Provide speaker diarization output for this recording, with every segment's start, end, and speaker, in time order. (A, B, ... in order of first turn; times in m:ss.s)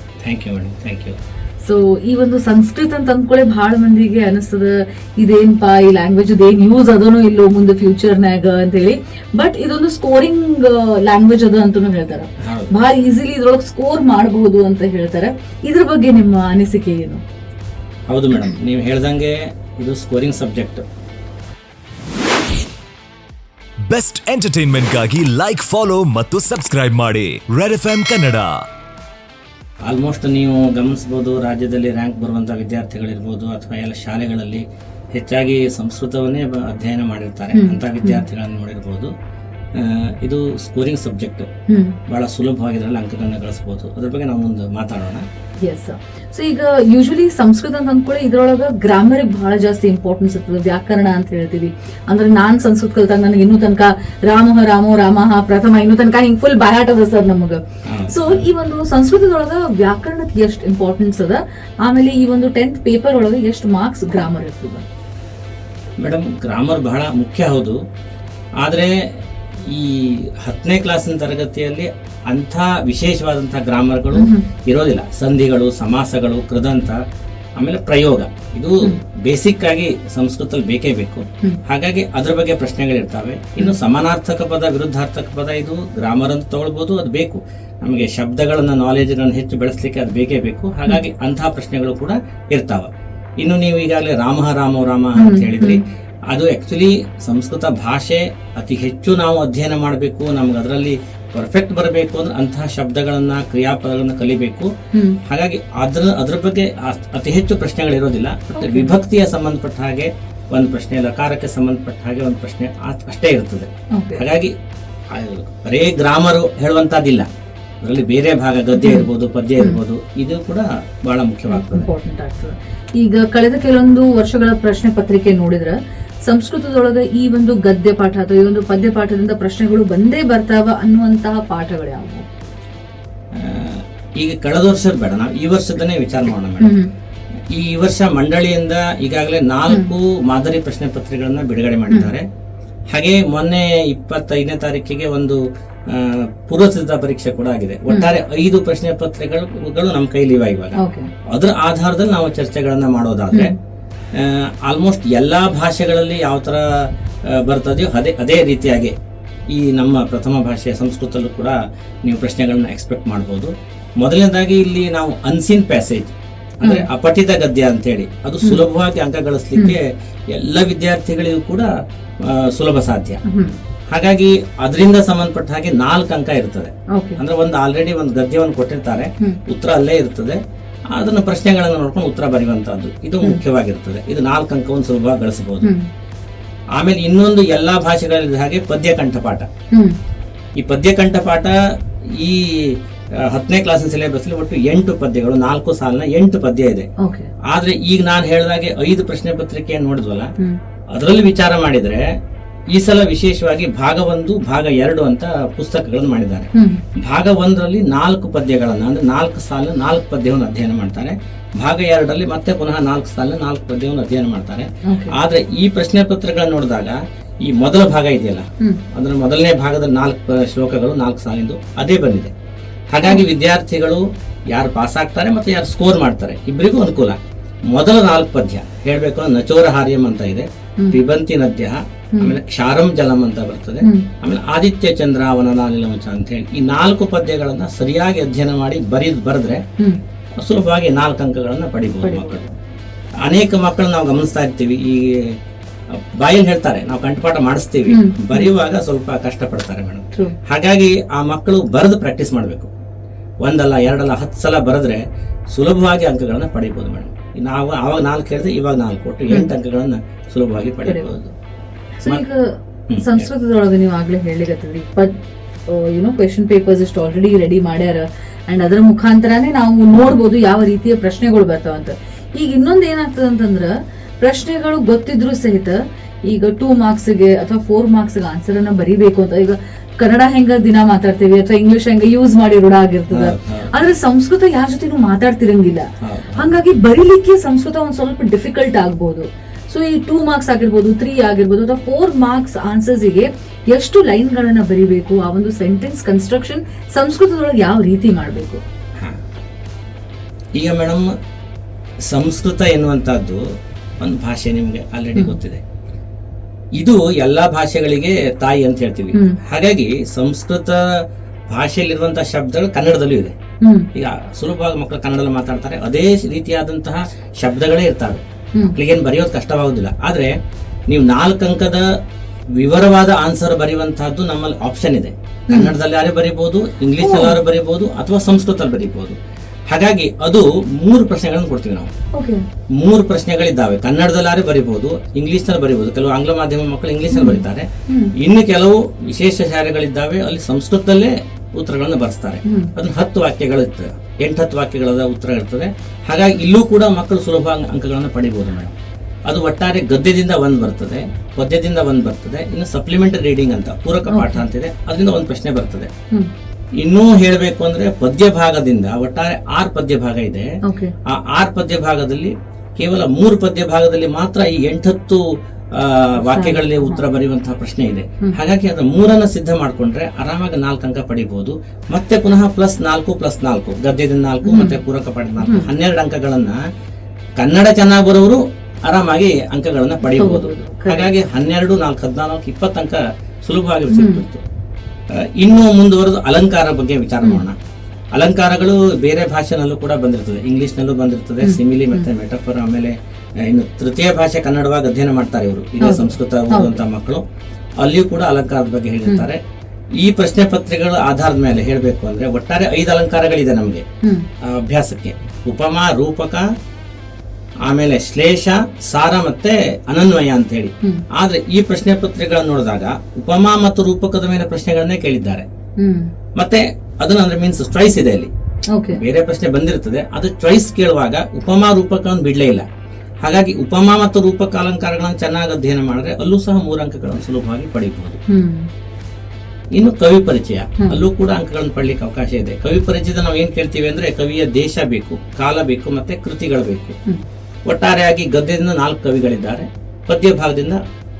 0:00.2-0:01.2 A
0:01.6-0:17.2 B
0:12.4-0:12.8 A
0:18.1-0:20.8 A
0:23.9-0:28.5 C
0:29.8-0:39.1 A
0:37.5-0:38.2 B
0:39.7-0:41.5 A
0:41.7-0:42.0 B
0:42.1-0:45.2 A
0:45.6-1:04.8 B
0:57.9-0:58.5 A
1:06.0-1:07.8 A
1:08.6-1:08.9 A
1:09.6-1:17.0 A
1:14.1-1:14.4 B
1:17.6-1:32.9 A
1:33.4-1:44.7 A
1:35.2-1:35.8 B
1:44.9-1:45.2 B
1:45.2-1:54.5 A
1:48.6-1:48.9 B
1:53.9-1:54.2 B
1:55.1-1:57.3 A
1:57.8-2:01.9 A
1:58.8-1:59.1 B
2:01.5-2:05.8 B
2:06.3-2:12.2 B
2:13.3-2:16.8 A
2:16.6-2:16.9 B
2:17.5-2:22.2 A
2:22.9-2:30.8 A
2:30.8-2:31.1 B
2:31.3-2:33.5 A
2:34.1-2:36.6 A
2:37.3-2:38.9 A
2:39.5-2:51.7 A
2:52.2-2:53.2 A
2:53.2-2:53.5 B
2:53.9-3:00.4 A
2:56.9-2:57.2 B
3:00.9-3:05.7 A
3:05.6-3:05.9 B
3:06.8-3:09.5 A
3:10.6-3:16.9 A
3:17.0-3:17.3 B
3:17.5-3:20.3 A
3:20.9-3:22.1 A
3:22.7-3:42.3 A
3:26.5-3:26.8 B
3:34.8-3:35.1 B
3:42.9-3:47.2 A
3:47.7-3:59.6 A
3:53.8-3:54.1 B
4:00.4-4:02.4 A
4:02.0-4:02.5 B
4:03.2-4:05.4 A
4:06.0-4:12.7 A
4:07.9-4:08.5 B
4:13.4-4:15.0 A
4:15.5-4:21.3 A
4:22.0-4:25.2 B
4:22.9-4:23.3 A
4:25.7-4:58.6 B
4:43.1-4:43.7 A
4:46.0-4:46.5 A
5:00.6-5:01.1 A
5:02.1-5:03.4 A
5:04.0-5:05.6 A
5:06.8-5:13.3 A
5:13.6-5:13.9 B
5:13.9-5:18.2 A
5:18.7-5:20.3 A
5:20.9-5:21.8 A
5:22.6-5:29.2 A
5:27.0-5:27.4 B
5:29.7-5:31.9 A
5:32.1-5:32.4 B
5:32.8-5:48.7 A
5:37.1-5:38.1 B
5:42.4-5:42.7 B
5:49.2-5:55.9 A
5:54.1-5:54.4 B
5:56.8-6:00.5 A
6:00.6-6:00.9 B
6:01.0-6:05.2 A
6:05.7-6:16.6 A
6:06.2-6:07.0 B
6:14.4-6:14.8 B
6:15.4-6:15.7 B
6:17.4-6:24.4 A
6:20.1-6:21.1 B
6:23.9-6:24.2 B
6:25.2-6:27.5 A
6:28.1-6:37.2 A
6:31.4-6:32.1 B
6:35.8-6:36.8 B
6:37.8-6:39.4 A
6:40.0-6:43.8 A
6:44.4-6:46.4 A
6:47.6-6:55.4 A
6:55.8-6:56.1 B
6:56.4-6:58.3 A
6:58.7-6:59.0 B
6:58.9-7:02.6 A
7:03.2-7:08.2 A
7:08.3-7:08.7 B
7:09.7-7:17.0 A
7:17.6-7:20.8 A